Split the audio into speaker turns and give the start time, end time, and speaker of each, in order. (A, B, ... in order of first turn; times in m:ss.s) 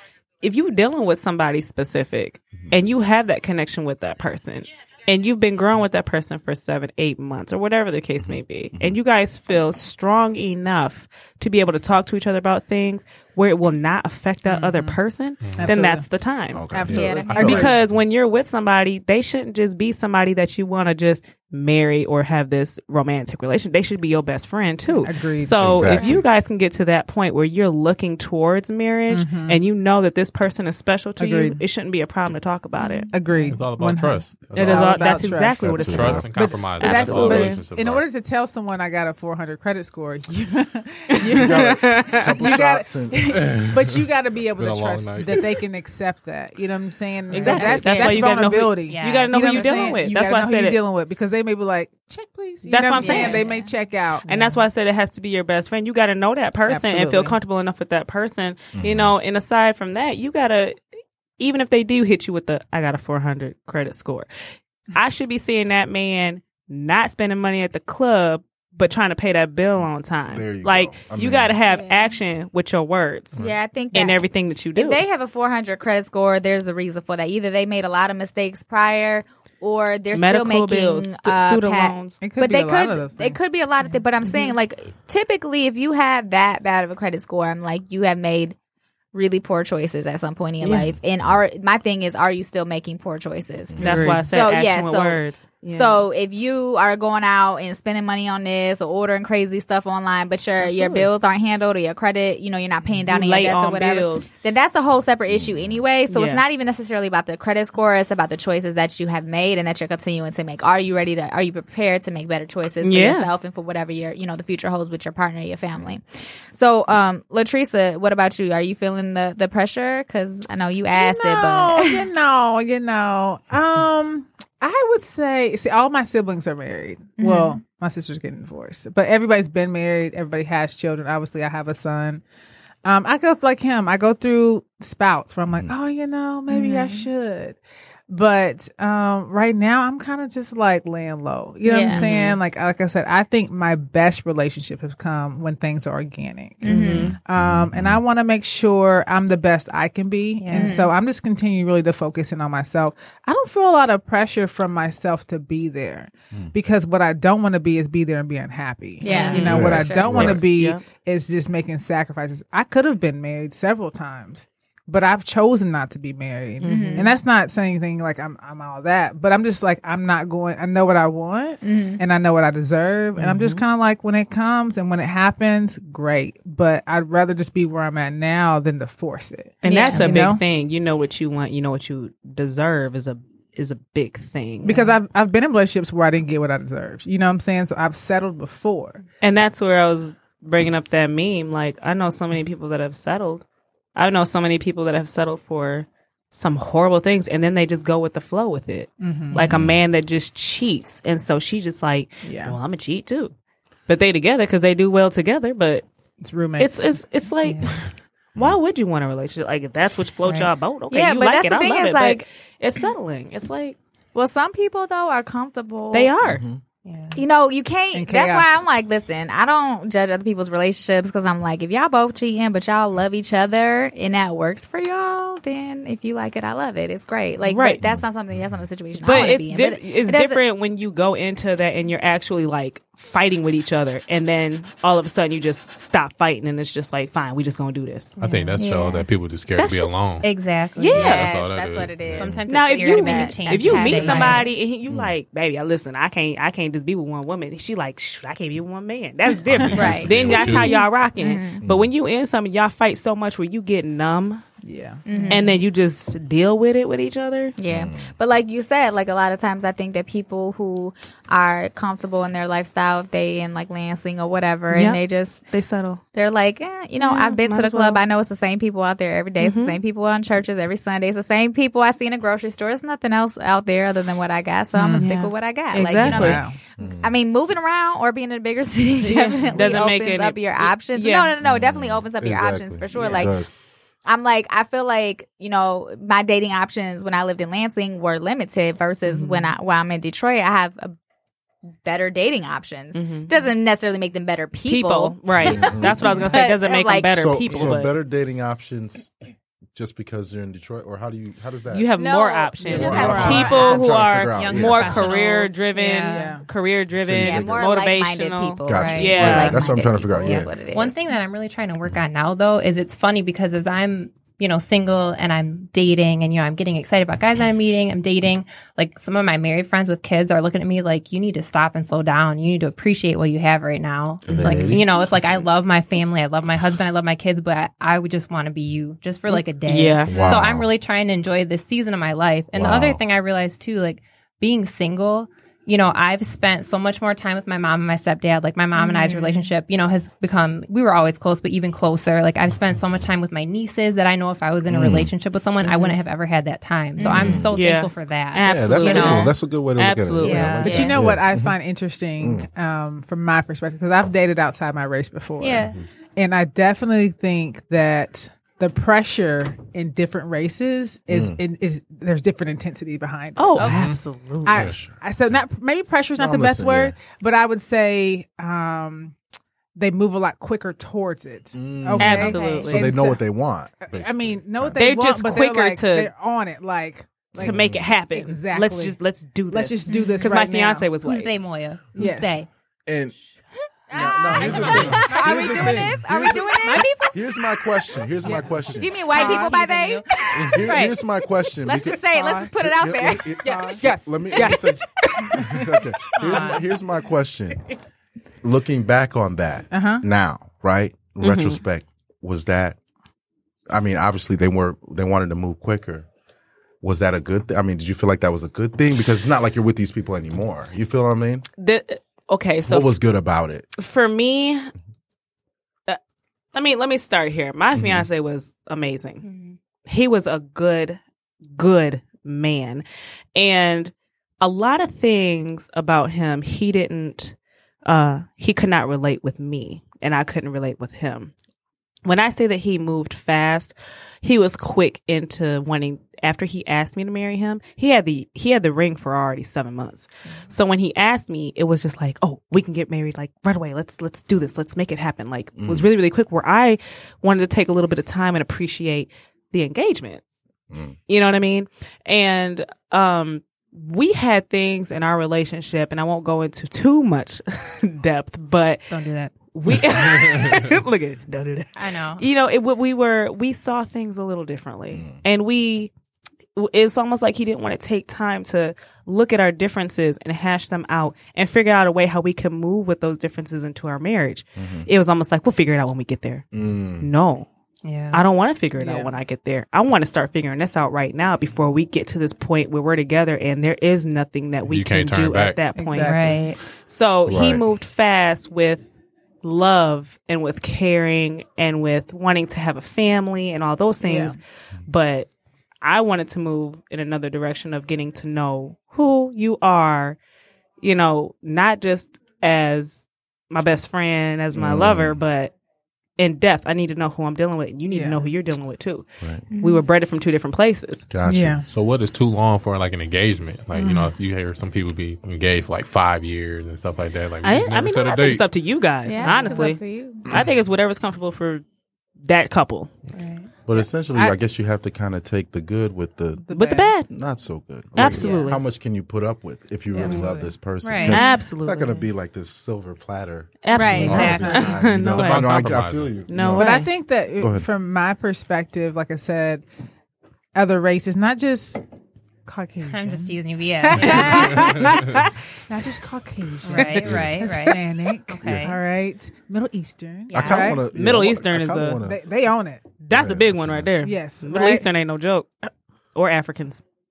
0:00.4-0:16.7 A
0:08.2-0:09.0 B
0:14.5-0:15.0 C
0:15.4-0:15.7 D
0:15.6-0:16.0 C
0:16.5-0:17.9 B
0:16.7-0:17.8 C
0:16.9-0:17.6 E
0:17.3-0:33.1 A
0:25.0-0:26.0 C
0:25.6-0:26.2 B
0:25.9-0:26.2 E
0:29.1-0:29.6 C
0:31.2-0:31.6 C
0:33.1-0:54.6 C
0:33.5-0:38.0 D
0:34.5-0:37.6 A
0:35.5-0:36.3 B
0:41.1-0:42.4 A
0:41.3-0:43.6 B
0:43.4-0:43.9 D
0:44.6-0:45.5 D
0:47.3-0:50.8 A
0:47.4-0:48.4 E
0:48.9-0:50.0 F
0:52.6-0:53.4 A
0:53.0-0:53.7 E
0:54.2-1:00.8 A
0:56.7-0:57.4 C
0:58.7-0:59.1 B
1:01.4-1:04.3 A
1:04.9-1:13.4 A
1:10.3-1:11.6 B
1:11.7-1:12.1 E
1:13.4-1:14.2 E
1:13.9-1:15.0 A
1:14.7-1:28.6 E
1:20.1-1:22.2 A
1:22.2-1:23.4 C
1:29.1-2:02.0 E
1:30.6-1:30.9 A
1:33.8-1:34.3 C
1:33.8-1:36.0 A
1:40.7-1:41.0 C
1:43.1-1:44.3 A
1:45.3-1:45.8 B
1:46.1-1:46.4 A
1:52.8-1:53.3 A
2:00.9-2:12.2 C
2:07.2-2:07.6 E
2:12.8-2:17.6 C
2:16.5-2:17.0 E
2:18.1-3:00.4 C
2:21.6-2:22.1 E
2:26.6-2:27.2 E
2:26.6-2:27.2 A
2:27.3-2:28.0 B
2:30.4-2:30.9 F
2:30.5-2:30.9 E
2:39.0-2:39.4 F
2:39.0-2:40.2 E
2:39.1-2:40.8 A
2:39.4-2:40.4 B
2:46.6-2:47.1 A
2:46.6-2:47.1 E
2:51.6-2:52.0 E
2:53.2-2:53.6 A
2:59.6-3:04.9 A
2:59.6-3:00.1 E
2:59.9-3:00.2 F
3:04.6-3:09.0 C
3:09.2-3:13.4 A
3:14.0-3:23.3 A
3:19.0-3:19.4 C
3:19.4-3:19.8 B
3:22.2-3:22.6 C
3:23.9-3:25.8 A
3:26.2-3:27.0 C
3:26.6-3:33.8 A
3:30.9-3:32.2 E
3:34.1-3:36.1 E
3:35.9-3:36.4 A
3:36.2-3:36.6 B
3:36.8-3:37.2 F
3:37.2-3:50.4 E
3:37.9-3:38.6 C
3:47.4-3:47.8 A
3:47.8-3:48.6 B
3:49.0-3:58.1 A
3:58.2-3:59.0 F
3:58.2-4:00.2 D
3:59.5-3:59.9 A
4:00.2-4:01.0 F
4:00.8-4:01.3 A
4:00.9-4:04.5 E
4:00.9-4:02.3 D
4:02.1-4:04.5 F
4:02.5-4:14.4 A
4:04.9-4:05.1 B
4:09.5-4:10.8 D
4:09.5-4:10.7 B
4:09.7-4:10.6 E
4:11.2-4:11.6 E
4:11.6-4:11.9 B
4:14.6-4:15.0 C
4:15.0-4:15.6 E
4:15.1-4:15.5 F
4:15.3-4:17.6 A
4:17.6-4:25.4 E
4:17.7-4:18.1 B
4:24.7-4:26.0 A
4:26.1-4:43.4 E
4:27.0-4:28.0 A
4:29.4-4:29.8 A
4:34.8-4:35.0 F
4:35.0-4:36.4 A
4:36.1-4:36.6 C
4:36.8-4:37.1 B
4:39.0-4:41.3 A
4:41.4-4:43.5 B
4:44.0-4:51.0 E
4:49.1-4:49.5 A
4:51.8-4:57.8 E
4:52.9-4:53.5 A
4:54.7-4:57.9 A
4:55.4-4:56.1 B
4:57.2-4:59.2 B
4:59.7-5:01.9 B
5:01.7-5:09.7 A
5:02.0-5:04.1 E
5:02.6-5:03.5 C
5:02.7-5:05.2 B
5:02.9-5:06.3 F
5:06.1-5:06.4 C
5:07.0-5:07.6 B
5:07.2-5:11.0 E
5:08.6-5:10.6 B
5:08.7-5:49.3 F
5:24.3-5:25.4 B
5:29.6-5:30.1 A
5:30.1-5:30.7 B
5:32.5-5:33.0 B
5:39.0-5:39.4 E
5:44.7-5:45.1 B
5:47.0-5:47.4 E
5:47.0-5:50.6 A
5:47.1-5:47.6 B
5:48.4-5:51.5 B
5:50.2-5:50.9 F
5:50.6-6:03.7 C
5:50.6-5:50.9 E
5:52.2-5:52.5 B
5:55.4-5:55.8 F
6:01.1-6:01.4 B
6:03.4-6:04.6 A
6:03.6-6:04.0 D
6:04.4-6:09.2 C
6:04.6-6:05.0 B
6:06.2-6:07.0 B
6:09.7-6:13.2 C
6:11.5-6:14.8 B
6:12.0-6:12.9 A
6:12.1-6:12.8 F
6:13.8-6:17.6 C
6:14.8-6:16.1 A
6:17.3-6:21.4 A
6:17.4-6:18.0 B
6:18.1-6:19.0 C
6:19.5-6:20.9 C
6:19.9-6:20.3 F
6:21.0-6:22.5 F
6:21.9-6:22.4 C
6:22.8-6:23.1 B
6:23.9-6:27.4 E
6:23.9-6:29.1 B
6:24.3-6:25.7 F
6:28.2-6:28.5 A
6:28.7-6:30.9 E
6:29.1-6:30.0 F
6:29.1-6:29.6 C
6:30.4-6:37.6 B
6:30.6-6:30.9 A
6:31.6-6:33.4 E
6:32.1-6:32.5 C
6:33.3-6:34.1 C
6:33.4-6:35.3 A
6:36.3-6:36.6 F
6:38.4-6:42.8 B
6:39.7-6:40.0 C
6:41.2-6:41.6 A
6:43.7-6:46.0 B
6:46.8-6:51.4 B
6:51.6-6:53.0 A
6:52.6-6:53.7 B
6:53.8-6:54.7 A
6:56.5-6:59.2 A
6:57.7-6:58.0 B
6:59.2-6:59.6 F
6:59.8-7:01.0 A
7:01.6-7:02.8 A
7:03.4-7:11.3 A
7:12.0-7:30.2 A
7:25.6-7:25.8 B
7:30.7-7:31.0 B
7:31.1-7:38.9 A
7:38.9-7:39.3 F
7:39.5-7:45.9 A
7:41.8-7:42.2 F
7:46.6-7:57.5 A
7:54.6-7:54.9 B
7:56.5-7:57.1 B
7:57.8-7:58.2 F
7:58.1-8:06.3 A
7:58.8-7:59.1 C
8:04.7-8:05.7 D
8:05.7-8:06.4 C
8:06.0-8:06.6 F
8:06.8-8:08.9 A
8:07.3-8:07.6 B
8:09.4-8:15.3 A
8:14.0-8:14.4 C
8:15.8-8:20.2 A
8:20.8-8:25.5 A
8:24.5-8:25.2 B
8:26.2-8:31.1 A
8:27.9-8:28.2 C
8:29.5-8:29.8 E
8:31.1-8:31.6 B
8:31.2-8:31.7 C
8:31.7-8:38.5 D
8:33.7-8:34.1 C
8:37.4-8:41.6 A
8:39.0-8:40.2 E
8:42.2-8:42.9 A
8:43.1-8:43.5 F
8:43.7-8:46.4 B
8:43.7-8:44.3 C
8:46.4-8:46.9 C
8:46.5-8:47.1 A
8:47.0-8:56.8 B
8:47.9-8:48.6 A
8:48.0-8:48.5 C
8:48.2-8:48.5 F
8:49.9-8:50.4 C
8:49.9-8:51.2 F
8:51.1-8:52.1 A
8:53.6-8:55.7 A
8:53.7-8:54.4 E
8:53.7-8:54.7 F
8:54.1-8:54.7 C
8:55.1-8:56.2 D
8:56.3-8:56.9 A
8:56.5-8:59.6 C
8:57.4-8:57.6 B
9:00.5-9:01.8 C
9:02.4-9:10.9 C
9:02.8-9:04.8 F
9:04.1-9:04.8 D
9:06.6-9:08.8 F
9:06.8-9:07.0 A
9:07.0-9:07.4 B
9:08.4-9:08.7 B
9:10.3-9:10.8 F
9:10.3-9:12.2 B
9:10.9-9:12.0 A
9:11.9-9:13.0 C
9:13.0-9:16.8 A
9:13.1-9:13.9 B
9:14.0-9:14.8 C